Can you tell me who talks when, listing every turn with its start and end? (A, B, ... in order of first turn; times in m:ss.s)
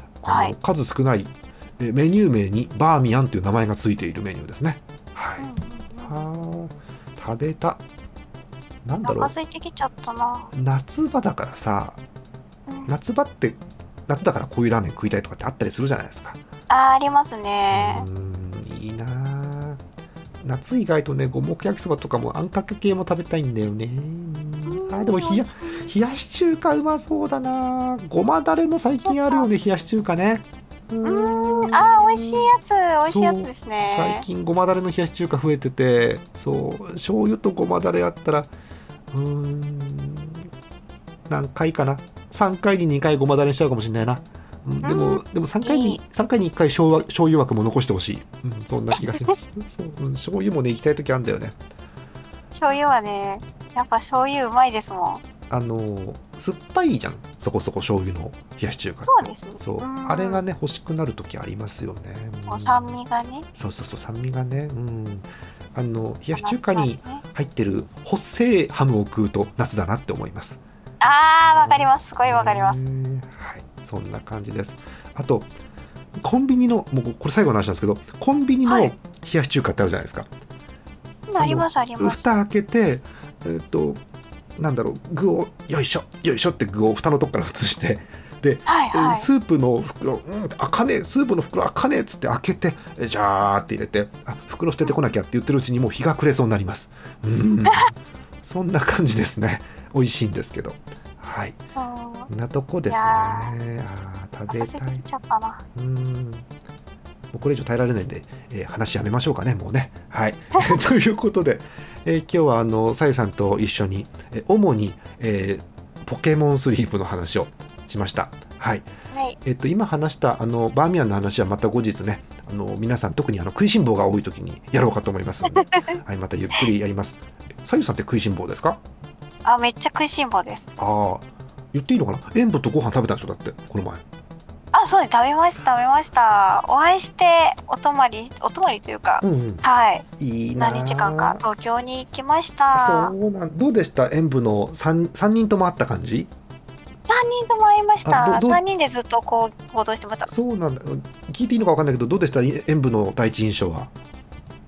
0:00.2-0:05.5 A
0:00.3-0:00.6 B
0:05.4-0:06.2 B
0:06.0-0:07.8 A
0:08.8-0:09.3 A
0:09.0-0:10.5 B
0:10.5-0:12.0 A
0:12.9-0:16.4 A
0:16.7-0:18.1 B
0:17.7-0:19.8 A
0:20.4-0:32.5 A
0:24.7-0:25.9 B
0:29.0-0:29.5 B
0:31.0-0:34.3 B
0:33.0-0:38.5 A
0:39.1-0:40.5 A
0:41.3-0:51.6 A
0:44.8-0:46.0 B
0:49.0-0:49.2 B
0:52.5-0:55.2 B
0:55.5-1:03.0 A
0:59.0-1:00.4 B
1:02.5-1:03.5 B
1:03.6-1:10.6 A
1:06.4-1:07.2 B
1:11.0-1:12.8 B
1:11.5-1:15.5 A
1:16.2-1:20.3 A
1:18.7-1:19.0 B
1:21.3-1:22.3 B
1:21.4-1:24.0 A
1:24.6-1:41.6 A
1:28.7-1:29.3 B
1:41.8-1:42.3 B
1:42.3-1:45.0 A
1:42.9-1:43.6 B
1:44.5-1:45.6 B
1:45.8-1:46.5 A
1:47.3-1:58.9 A
1:59.1-1:59.4 B
1:59.4-2:08.8 A
2:05.5-2:06.0 B
2:09.4-2:10.7 B
2:10.8-2:14.0 A
2:14.7-2:23.1 B
2:19.2-2:19.6 A
2:20.2-2:21.4 A
2:22.7-2:26.3 A
2:27.1-2:30.3 B
2:28.0-2:28.6 A
2:30.3-2:33.9 A